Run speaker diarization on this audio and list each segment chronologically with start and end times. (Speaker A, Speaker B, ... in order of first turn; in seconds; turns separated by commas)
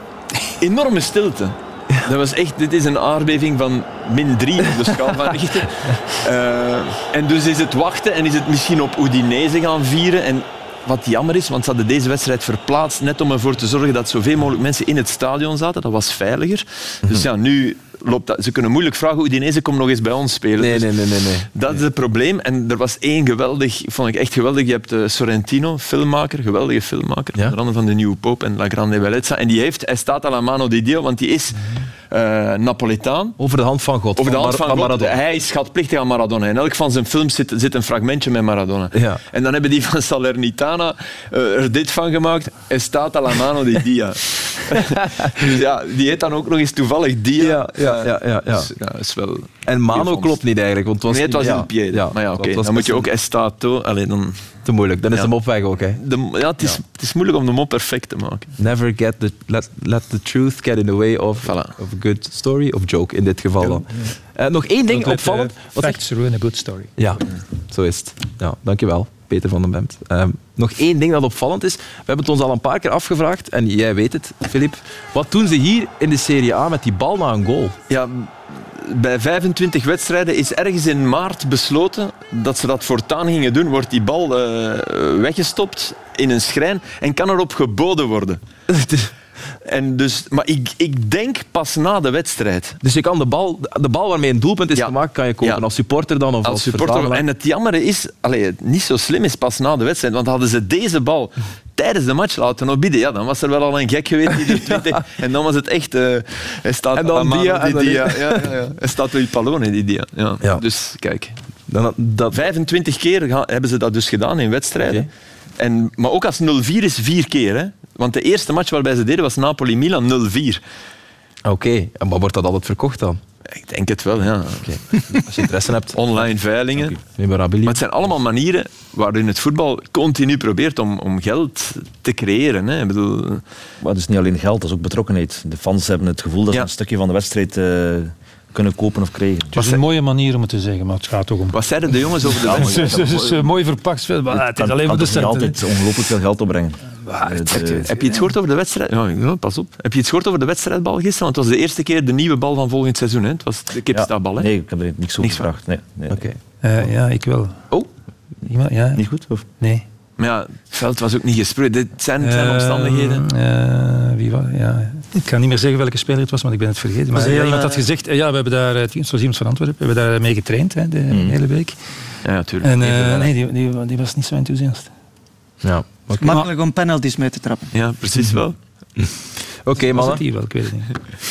Speaker A: 0.4-33.4, Speaker B: 20.6-21.5, Speaker B: 33.4-35.1, Speaker A: 34.2-50.4, Speaker B: 38.9-39.2, Speaker B: 44.9-45.3, Speaker B: 47.4-48.7, Speaker B: 49.6-53.1, Speaker A: 51.1-55.3, Speaker B: 54.6-56.0, Speaker A: 56.0-58.5, Speaker B: 58.6-66.0, Speaker A: 61.4-61.8, Speaker C: 64.9-66.9, Speaker B: 67.0-77.8, Speaker A: 77.9-88.4, Speaker B: 88.7-89.1, Speaker A: 89.6-92.8, Speaker B: 92.8-97.2, Speaker A: 94.8-95.6, Speaker A: 96.4-111.4, Speaker B: 104.7-105.0, Speaker B: 106.9-108.5, Speaker B: 111.7-112.4, Speaker A: 112.3-115.1, Speaker B: 114.8-115.1, Speaker A: 115.6-120.6, Speaker B: 121.5-123.2, Speaker A: 123.5-125.2, Speaker B: 124.6-126.0, Speaker A: 125.9-127.0, Speaker B: 127.0-127.8, Speaker A: 127.7-133.4, Speaker D: 133.8-139.8, Speaker C: 139.6-145.6, Speaker A: 141.5-143.4, Speaker D: 142.4-143.2, Speaker D: 144.3-147.9, Speaker C: 147.0-147.7, Speaker A: 147.5-154.5, Speaker D: 153.9-156.3, Speaker A: 155.2-155.5, Speaker B: 156.1-156.4, Speaker C: 156.6-157.6, Speaker C: 158.4-159.8, Speaker D: 158.9-159.4, Speaker A: 160.2-163.2, Speaker C: 162.2-171.8, Speaker E: 167.1-167.8, Speaker D: 171.1-171.4, Speaker A: 172.2-173.3, Speaker C: 172.6-174.9, Speaker B: 175.6-176.4, Speaker E: 176.2-177.7, Speaker A: 177.7-178.6, Speaker B: 179.0-180.2, Speaker C: 179.9-180.9